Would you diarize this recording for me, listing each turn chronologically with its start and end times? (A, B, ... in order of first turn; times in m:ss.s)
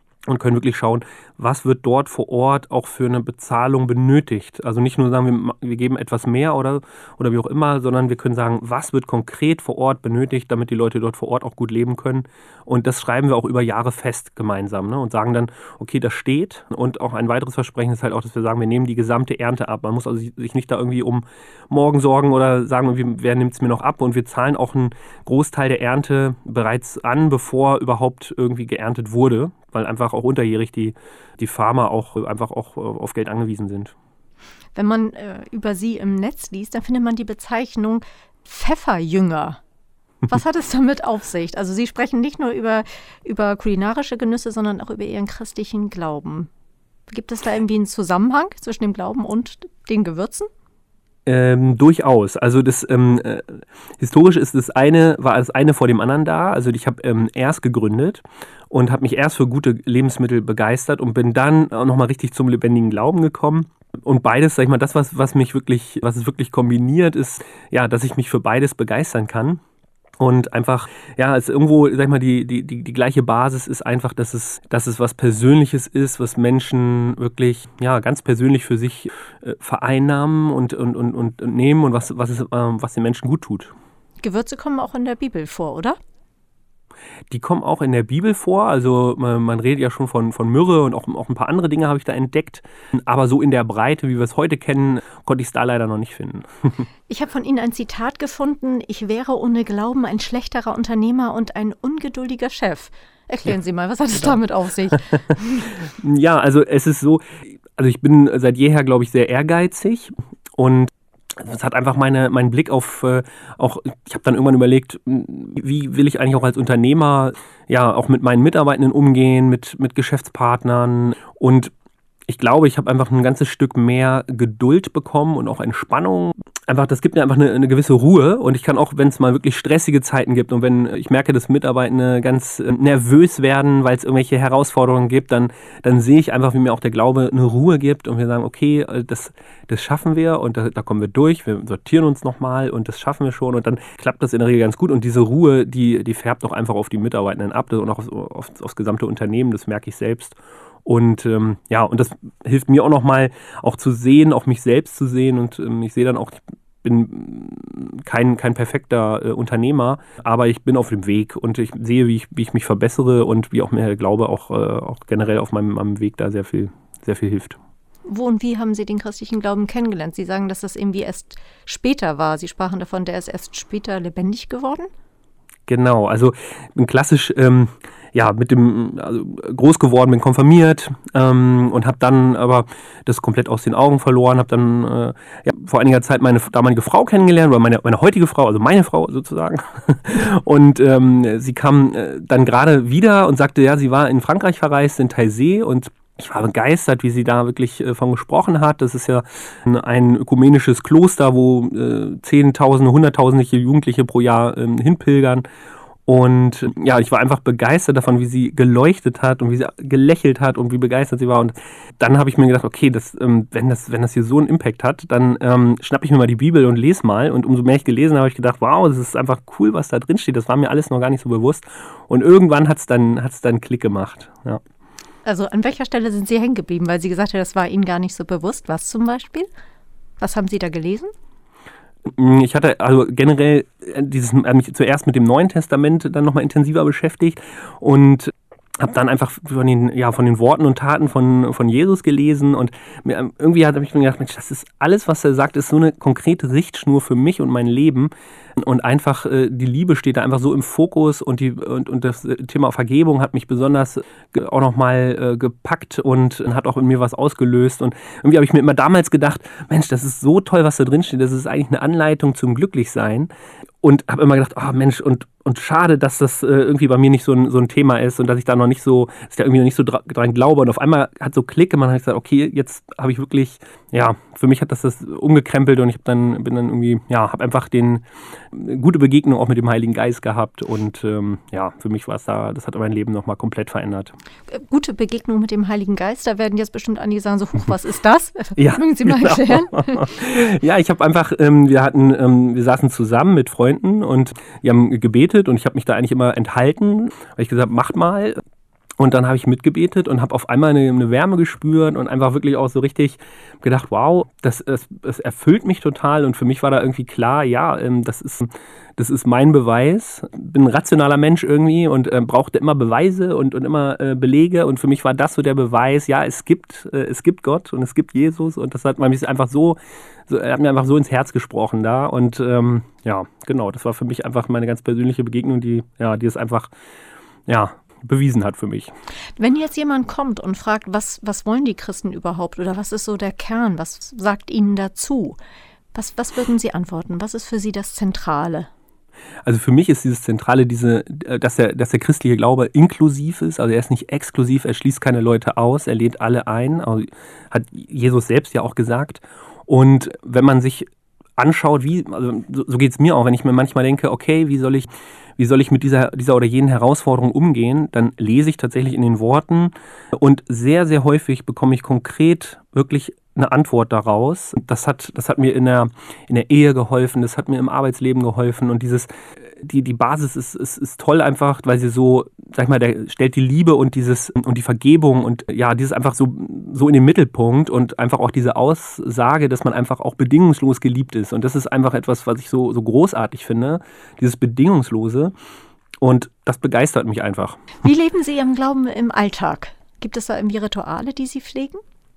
0:00.3-0:33.9 A
0:34.8-0:39.6 B
0:40.3-0:46.5 B
0:47.1-0:50.5 B
0:51.3-1:09.6 A
1:10.2-1:23.7 A
1:24.2-1:26.0 B
1:27.3-1:36.9 A
1:37.1-1:45.7 B
1:45.7-2:01.7 A
2:02.3-2:47.6 A
2:48.1-2:54.9 B
2:55.7-3:25.4 A
3:26.1-3:44.6 A
3:45.2-3:49.5 B
3:50.2-3:51.1 B
3:52.1-4:23.3 A
4:23.8-4:44.1 A
4:44.5-4:50.1 B
4:48.6-4:58.4 A
4:59.0-5:26.7 A
5:27.5-5:28.9 A
5:29.4-5:35.4 B
5:35.9-5:38.7 B
5:39.4-6:25.3 A
6:26.0-6:27.8 A
6:27.8-6:31.8 B